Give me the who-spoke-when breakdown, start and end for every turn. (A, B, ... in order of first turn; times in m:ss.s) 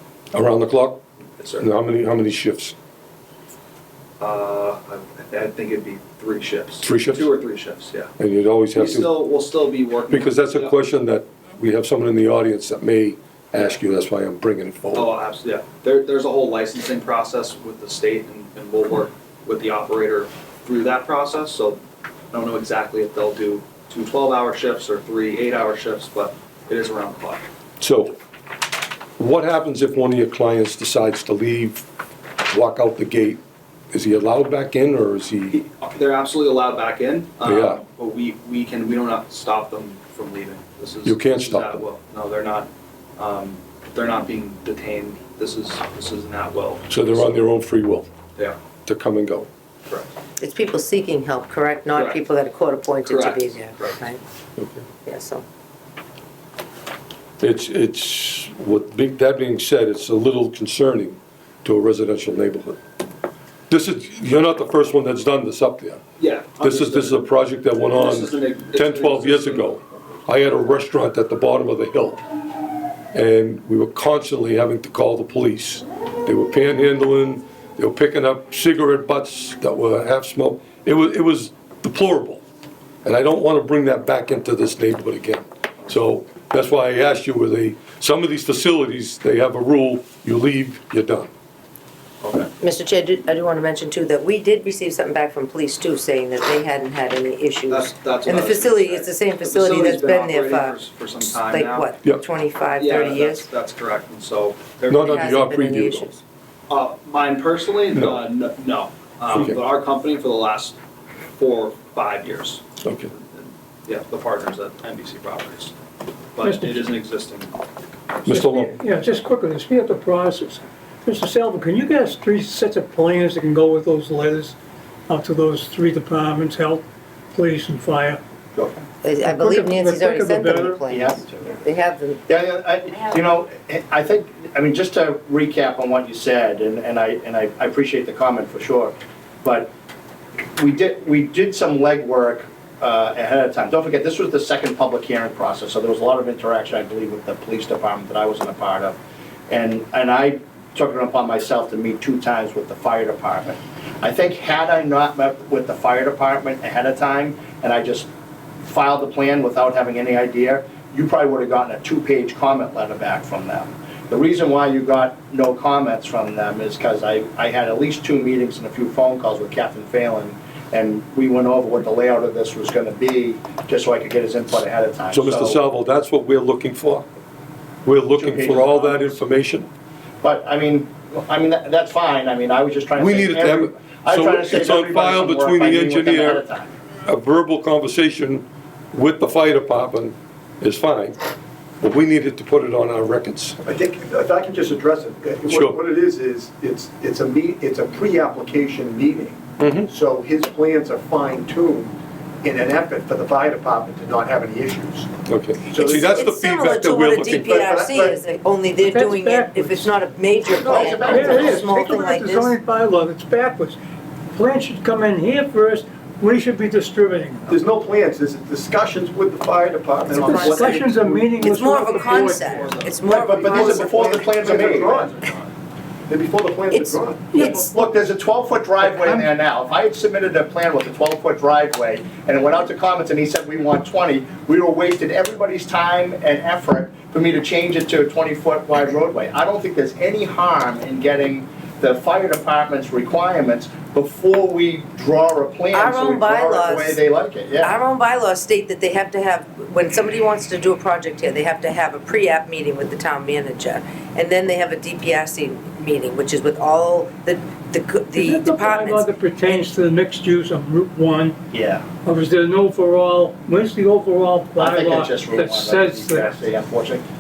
0:00.3-0:01.0 A
0:01.4-0:01.7 B
0:01.6-0:02.7 A
0:04.2-0:08.1 B
0:06.8-0:07.3 A
0:08.2-0:09.1 A
0:08.7-0:10.7 B
0:10.1-0:15.1 A
0:13.5-0:13.8 B
0:14.9-0:21.8 B
0:22.3-0:27.4 B
0:27.8-0:28.2 A
0:29.2-0:31.8 A
0:32.5-0:33.4 A
0:33.9-0:35.6 A
0:35.5-0:47.3 B
0:37.4-0:37.8 A
0:41.0-0:41.8 A
0:46.9-0:48.1 A
0:48.8-0:49.5 A
0:49.9-0:50.1 B
0:50.4-0:54.2 C
0:51.9-0:52.2 B
0:53.0-0:54.0 B
0:54.6-0:54.8 A
0:55.0-0:55.4 C
0:57.4-1:02.8 A
1:03.7-1:06.0 A
1:06.2-1:07.2 B
1:06.6-1:12.2 A
1:07.9-1:09.8 B
1:13.1-1:22.4 A
1:23.0-1:31.3 A
1:32.2-1:32.5 B
1:32.6-1:43.5 C
1:37.7-1:41.9 B
1:42.8-1:45.1 B
1:44.9-1:46.1 A
1:44.9-1:46.2 C
1:46.7-1:50.8 B
1:51.4-1:55.7 B
1:52.8-1:53.1 A
1:56.3-1:57.5 B
1:56.4-1:56.9 D
1:58.2-1:58.8 A
1:58.2-2:04.5 D
2:05.1-2:08.2 D
2:09.0-2:12.2 C
2:09.2-2:10.8 D
2:10.9-2:11.6 E
2:12.3-2:19.7 E
2:20.6-2:29.0 E
2:29.5-2:38.1 E
2:38.6-2:55.6 E
2:55.1-2:57.0 A
2:57.8-2:59.7 A
2:58.1-2:59.2 E
3:00.2-3:06.7 E
3:03.0-3:06.4 A
3:07.0-3:11.2 A
3:11.8-3:13.6 A
3:13.6-3:25.1 F
3:15.5-3:15.8 A
3:19.6-3:19.9 A
3:25.3-3:27.6 A
3:25.6-3:26.3 F
3:25.8-3:32.5 C
3:27.4-3:28.2 F
3:28.7-3:29.9 D
3:30.6-3:31.6 E
3:30.7-3:33.8 D
3:34.3-3:37.6 D
3:37.5-3:41.8 F
3:40.1-3:42.7 D
3:40.2-3:40.8 C
3:41.4-3:44.0 C
3:41.8-3:43.1 B
3:43.1-3:45.1 F
3:43.2-3:45.0 E
3:44.4-3:45.5 B
3:46.1-3:47.6 F
3:46.7-3:47.6 C
3:47.3-3:47.7 D
3:47.4-4:07.7 E
3:48.9-3:49.2 D
4:05.7-4:07.0 C
4:07.6-4:19.7 C
4:18.1-4:21.4 D
4:21.5-4:21.8 E
4:22.0-4:26.4 D
4:24.6-4:27.0 E